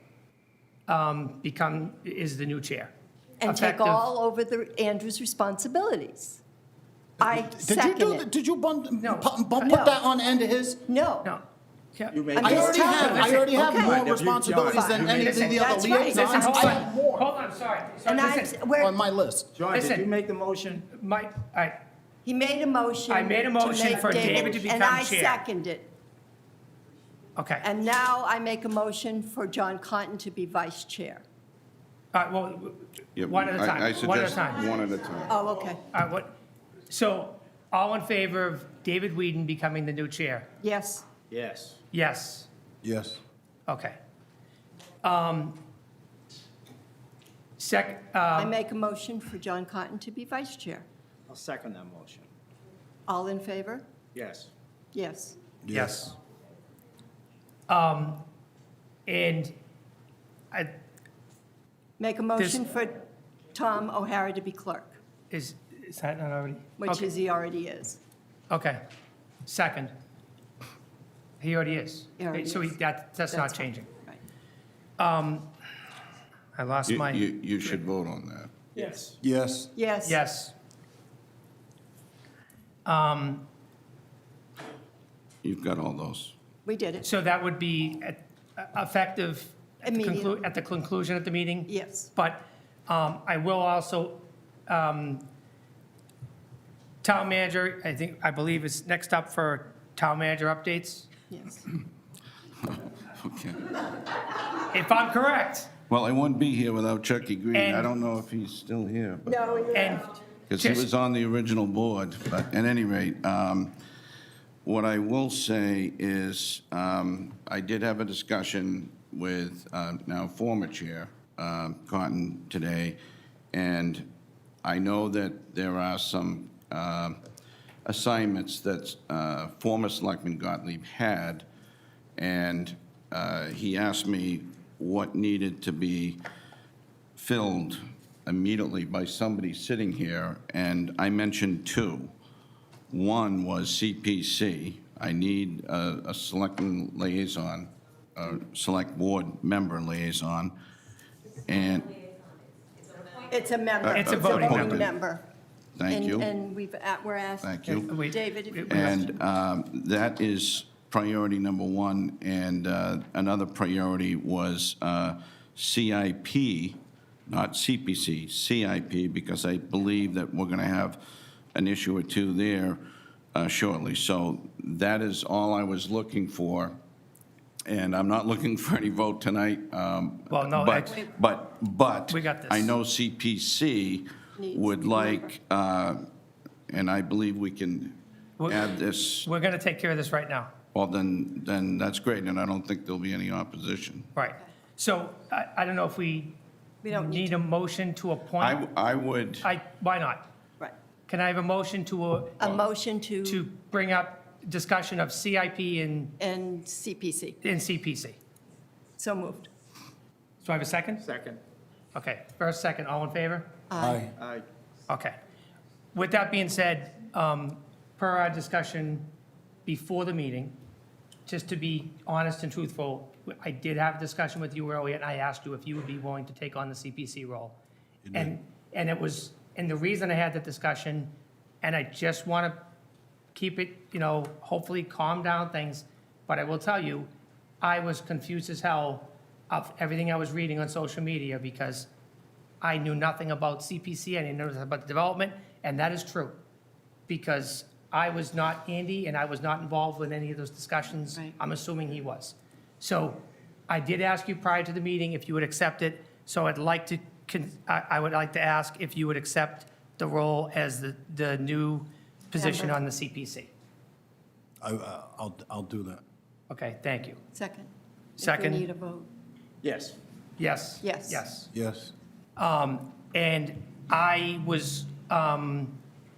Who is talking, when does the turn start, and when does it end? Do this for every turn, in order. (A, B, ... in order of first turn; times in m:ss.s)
0:00.9-0:02.9 A
0:03.4-0:06.4 B
0:03.4-0:04.0 A
0:07.2-0:08.3 B
0:07.2-0:10.8 C
0:09.0-0:09.3 A
0:09.6-0:10.0 B
0:10.8-0:11.3 B
0:11.9-0:13.5 A
0:12.1-0:15.7 D
0:12.4-0:14.0 B
0:12.4-0:17.2 C
0:14.7-0:16.8 B
0:15.2-0:15.4 A
0:16.1-0:18.6 A
0:18.1-0:18.9 B
0:18.8-0:19.5 C
0:19.5-0:20.8 D
0:19.7-0:20.1 A
0:20.8-0:21.8 A
0:22.2-0:25.9 B
0:23.1-0:25.4 A
0:24.3-0:24.6 D
0:27.4-0:27.7 A
0:27.6-0:31.2 B
0:32.1-0:34.6 A
0:33.2-0:35.3 E
0:35.3-0:35.8 B
0:35.8-0:36.3 A
0:36.9-0:40.5 A
0:40.6-0:41.0 B
0:41.3-0:41.8 D
0:41.9-0:42.5 A
0:42.8-0:43.2 C
0:43.7-0:44.0 A
0:45.0-0:45.6 A
0:47.6-0:48.5 A
0:48.3-0:50.9 B
0:51.3-0:52.3 D
0:53.1-0:53.8 B
0:54.1-0:54.5 D
0:54.9-0:55.4 B
0:55.6-0:56.0 C
0:55.7-0:56.1 A
0:57.7-0:58.2 A
0:59.0-0:59.5 A
1:02.0-1:05.0 B
1:02.4-1:02.6 A
1:05.3-1:07.1 A
1:06.8-1:08.0 B
1:08.5-1:08.8 A
1:09.4-1:09.9 A
1:11.4-1:13.9 A
1:12.2-1:12.7 B
1:13.3-1:14.2 B
1:15.0-1:15.5 A
1:16.5-1:17.8 A
1:16.9-1:18.5 E
1:18.7-1:19.2 D
1:19.2-1:19.7 C
1:19.7-1:20.2 B
1:20.0-1:20.5 A
1:22.8-1:23.4 A
1:25.4-1:26.3 E
1:26.6-1:27.0 B
1:27.0-1:35.2 A
1:29.8-1:30.3 B
1:31.7-1:32.1 B
1:37.0-1:41.1 A
1:41.3-1:41.7 B
1:42.6-1:43.7 E
1:44.6-1:45.7 A
1:45.9-1:49.4 E
1:47.5-1:47.9 A
1:49.2-1:50.2 B
1:49.7-1:50.9 A
1:50.5-1:53.7 E
1:54.6-2:03.0 E
2:03.5-2:04.1 E
2:04.6-2:07.2 E
2:07.8-2:11.4 E
2:12.2-2:16.2 E
2:17.2-2:22.1 E
2:22.9-2:30.5 E
2:31.4-2:32.0 E
2:33.2-2:35.3 B
2:33.8-2:34.9 E
2:33.9-2:34.8 A
2:35.8-2:36.3 E
2:35.9-2:39.0 B
2:37.4-2:37.9 E
2:37.7-2:39.1 A
2:38.7-2:51.0 E
2:51.5-2:52.8 E
2:53.3-2:56.8 E
2:57.7-3:06.0 E
3:00.3-3:01.0 A
3:02.1-3:02.7 A
3:04.4-3:05.3 B
3:06.7-3:09.3 E
3:08.4-3:08.7 A
3:09.2-3:10.5 A
3:10.7-3:14.1 E
3:14.1-3:16.4 A
3:16.8-3:17.3 B
3:16.9-3:18.6 A
3:18.4-3:19.5 E
3:19.4-3:20.2 A
3:21.1-3:22.5 A
3:22.4-3:23.4 B
3:23.2-3:26.2 A
3:26.2-3:27.4 B
3:27.4-3:28.2 A
3:29.0-3:29.5 B
3:30.4-3:31.0 A
3:31.0-3:31.4 D
3:31.9-3:33.5 A
3:33.7-3:34.1 B
3:33.8-3:34.1 C
3:34.2-3:34.4 D
3:34.9-3:35.2 A
3:35.9-3:39.1 A
3:39.6-3:40.6 A
3:41.3-3:47.6 A
3:48.0-3:48.3 C
3:48.1-3:52.6 A
3:53.3-3:57.1 A
3:57.6-4:01.9 A
4:02.6-4:06.4 A
4:07.1-4:23.5 A
4:22.3-4:22.8 B
4:24.6-4:26.0 C
4:26.5-4:27.2 A
4:27.3-4:29.1 B
4:28.2-4:28.7 A
4:29.6-4:30.0 D
4:30.4-4:31.5 A
4:30.8-4:31.2 B
4:31.5-4:31.9 C
4:32.4-4:35.8 A